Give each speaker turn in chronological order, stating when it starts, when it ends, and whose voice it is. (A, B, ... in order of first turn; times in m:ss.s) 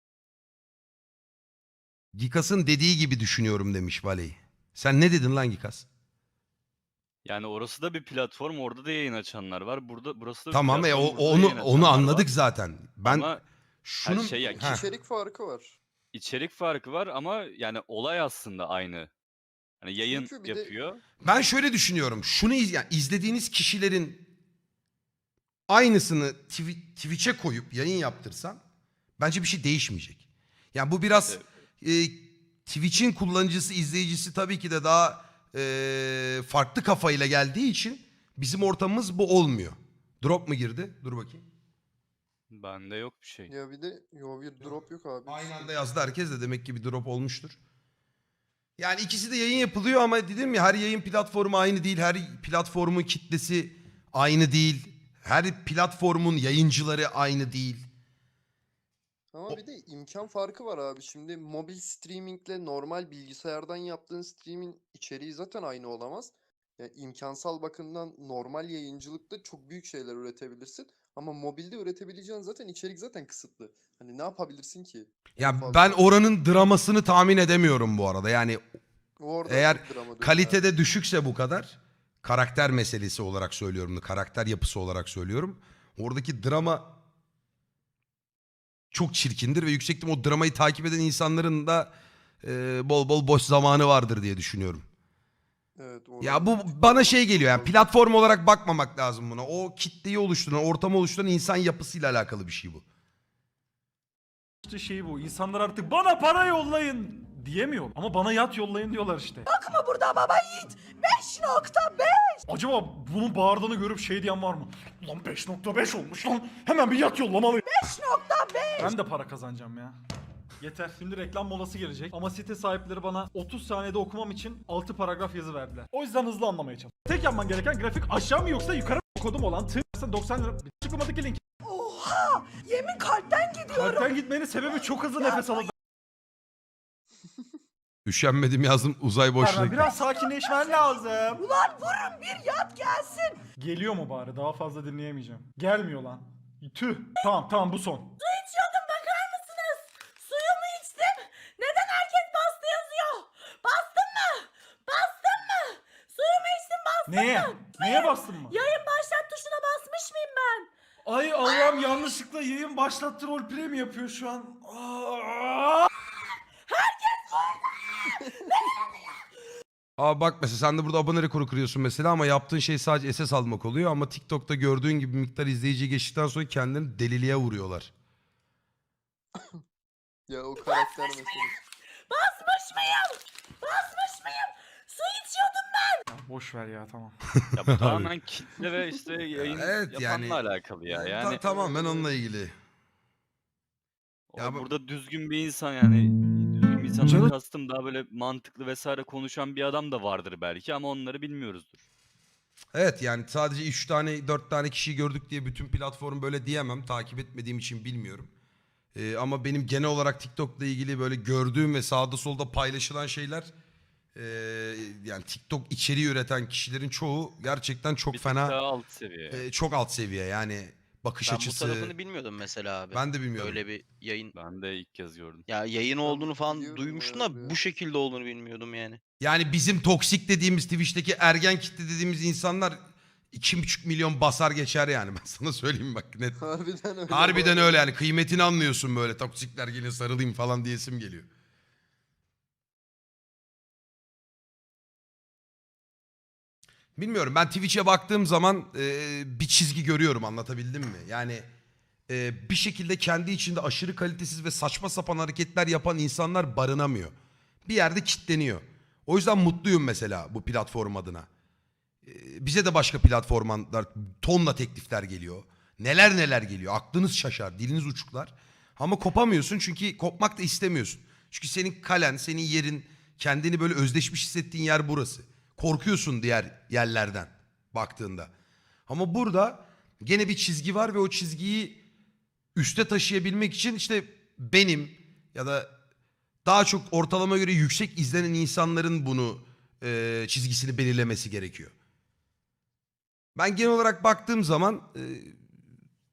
0:02.1-0:05.9 A
0:07.2-0:12.3 B
0:10.5-0:13.3 A
0:13.0-0:13.4 B
0:13.8-0:14.8 A
0:14.0-0:14.8 B
0:14.4-0:15.8 C
0:16.1-0:19.1 B
0:19.8-0:21.0 B
0:20.0-0:20.7 C
0:21.2-0:24.2 A
0:25.7-0:28.6 A
0:29.2-0:41.4 A
0:42.5-0:43.5 B
0:43.5-0:45.7 C
0:45.2-0:47.6 A
0:48.8-0:57.9 A
0:59.3-1:16.1 C
1:15.4-1:18.6 A
1:19.2-1:20.6 C
1:19.4-1:27.0 A
1:28.9-1:34.9 A
1:35.8-1:37.9 C
1:36.2-1:42.8 A
1:44.6-1:49.5 D
1:49.5-1:52.4 E
1:52.5-1:57.7 D
1:57.6-1:58.9 E
1:58.8-2:00.0 D
2:00.6-2:11.4 D
2:11.6-2:14.1 E
2:13.7-2:15.7 D
2:15.2-2:15.7 E
2:18.0-2:19.9 A
2:19.4-2:21.4 D
2:20.2-2:23.4 E
2:23.6-2:28.2 D
2:28.2-2:40.7 F
2:37.1-2:38.6 D
2:41.0-2:45.9 D
2:41.4-2:42.1 F
2:46.7-2:49.2 F
2:50.0-2:57.9 A
2:59.4-2:59.6 C
3:00.3-3:01.6 C
3:00.6-3:01.4 F
3:02.1-3:06.0 F
3:06.1-3:07.2 D
3:07.5-3:11.4 B
3:07.7-3:08.1 A
3:09.4-3:12.5 A
3:11.3-3:12.1 C
3:14.3-3:21.9 B
3:14.4-3:14.6 A
3:17.0-3:17.3 D
3:22.7-3:28.3 A
3:28.9-3:33.5 A
3:34.1-3:38.6 A
3:38.1-3:39.4 B
3:39.3-3:41.9 A
3:41.2-3:44.3 G
3:42.9-3:43.6 A
3:44.4-3:45.5 B
3:45.5-3:49.0 G
3:46.0-3:47.6 C
3:49.2-3:52.8 A
3:53.3-3:56.4 A
3:56.4-3:57.8 C
3:57.1-4:01.3 A
4:07.0-4:11.5 A
4:12.1-4:21.3 A
4:22.0-4:38.3 A
4:38.9-4:41.8 A
4:42.6-4:45.7 A
4:46.4-4:51.7 A
4:53.4-4:55.4 A